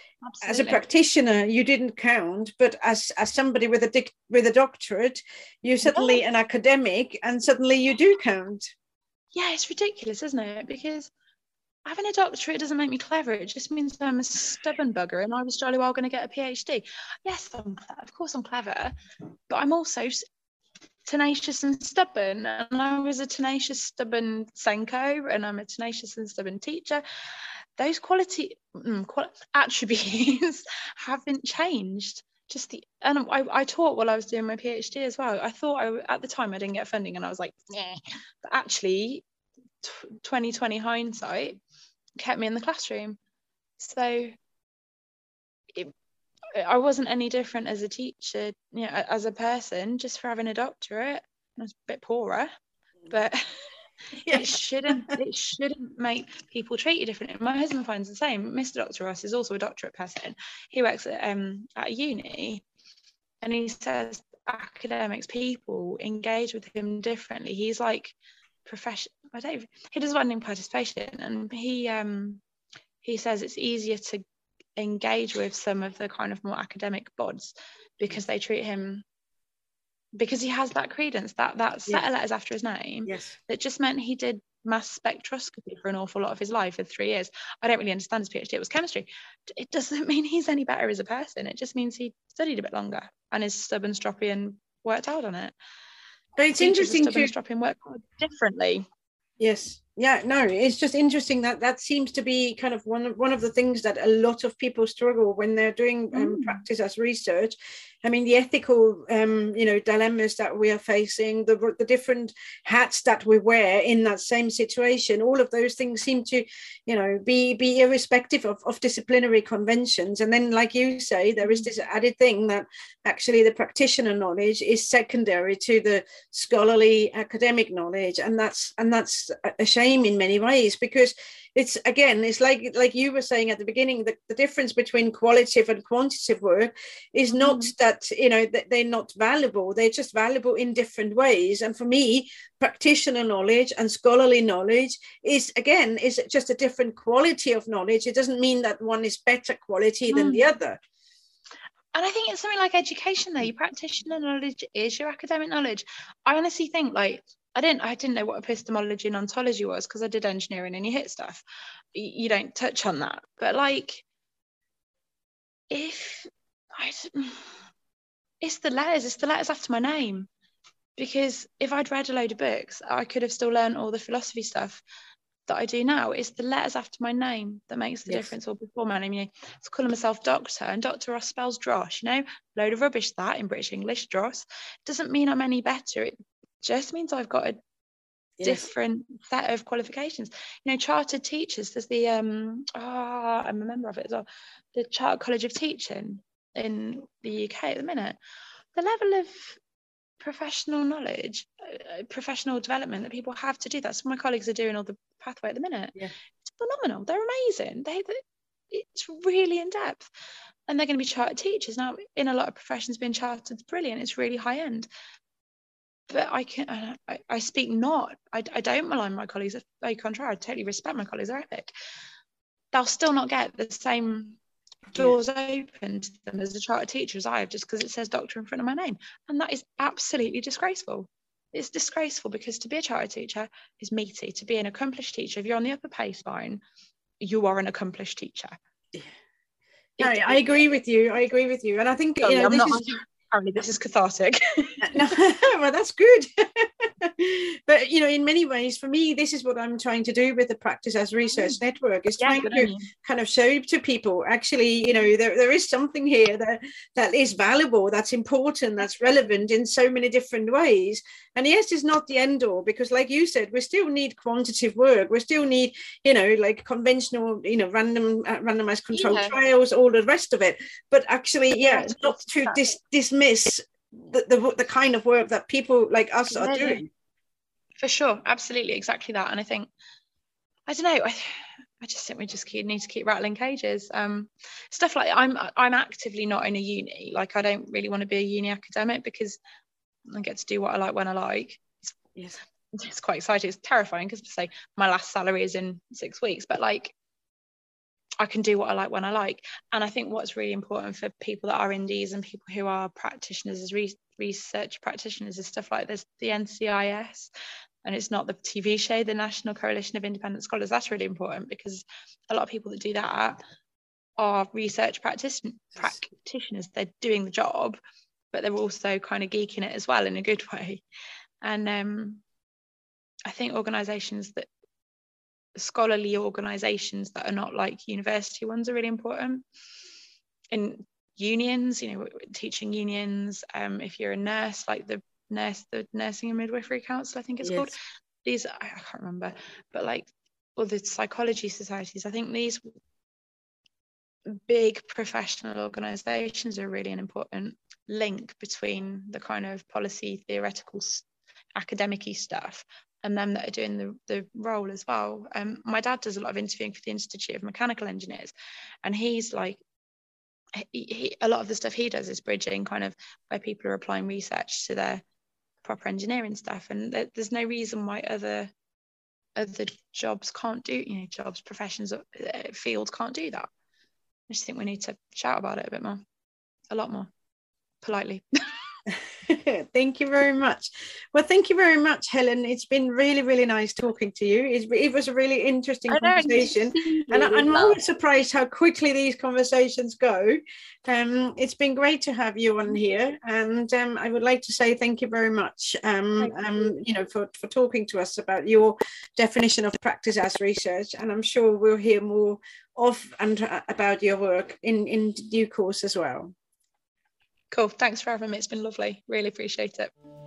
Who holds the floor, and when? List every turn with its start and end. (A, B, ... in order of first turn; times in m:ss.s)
0:00.2-0:00.8 A
0:00.4-0:08.6 B
0:05.9-0:06.2 A
0:09.3-0:11.1 A
0:11.8-0:19.0 A
0:19.5-0:20.2 A
0:21.1-0:39.2 A
0:39.8-0:41.6 A
0:42.2-0:43.2 A
0:43.8-0:44.4 A
0:46.6-0:52.5 A
0:53.1-0:53.5 A
0:54.2-0:55.1 B
0:54.2-1:02.6 A
1:03.4-1:12.4 A
1:13.0-1:14.2 A
1:14.8-1:19.0 A
1:20.2-1:35.5 A
1:36.4-1:37.3 B
1:36.6-1:38.8 A
1:39.4-2:30.8 B
1:46.1-1:46.6 A
2:01.4-2:01.7 A
2:17.3-2:17.7 A
2:30.1-2:30.5 A
2:31.9-2:41.4 A
2:42.0-2:44.0 A
2:45.7-2:47.5 A
2:48.4-2:50.3 A
2:51.0-2:54.8 A
2:55.5-3:07.6 A
2:58.1-2:58.3 B
3:08.4-3:08.7 B
3:08.4-3:18.2 A
3:18.8-3:19.6 A
3:20.2-3:30.1 A
3:30.7-3:34.9 A
3:36.1-3:41.7 A
3:42.7-3:44.4 A
3:44.9-3:56.6 A
3:57.2-3:58.6 A
4:00.0-4:00.6 A
4:00.0-4:02.9 B
4:02.2-4:05.1 A
4:04.8-4:36.9 B
4:12.2-4:12.9 A
4:28.9-4:29.4 A
4:31.5-4:32.6 A
4:36.3-4:36.8 A
4:37.8-4:39.7 A
4:40.7-4:49.4 A
4:50.1-4:52.0 A
4:52.8-4:56.9 A
4:58.2-5:07.3 A
5:07.8-5:13.4 A
5:14.2-5:17.8 A
5:18.3-5:20.8 A
5:21.4-5:22.2 A
5:23.3-5:24.5 A
5:25.6-5:29.4 A
5:30.5-5:37.7 A
5:37.4-5:37.7 B
5:38.2-5:42.6 A
5:44.3-5:59.6 A
6:00.6-6:05.0 A
6:05.6-6:08.5 A
6:09.4-6:13.5 A
6:14.3-6:16.0 A
6:16.7-6:17.1 A
6:17.8-6:18.2 A
6:18.9-6:46.3 B
6:25.9-6:27.8 A
6:47.5-6:49.9 A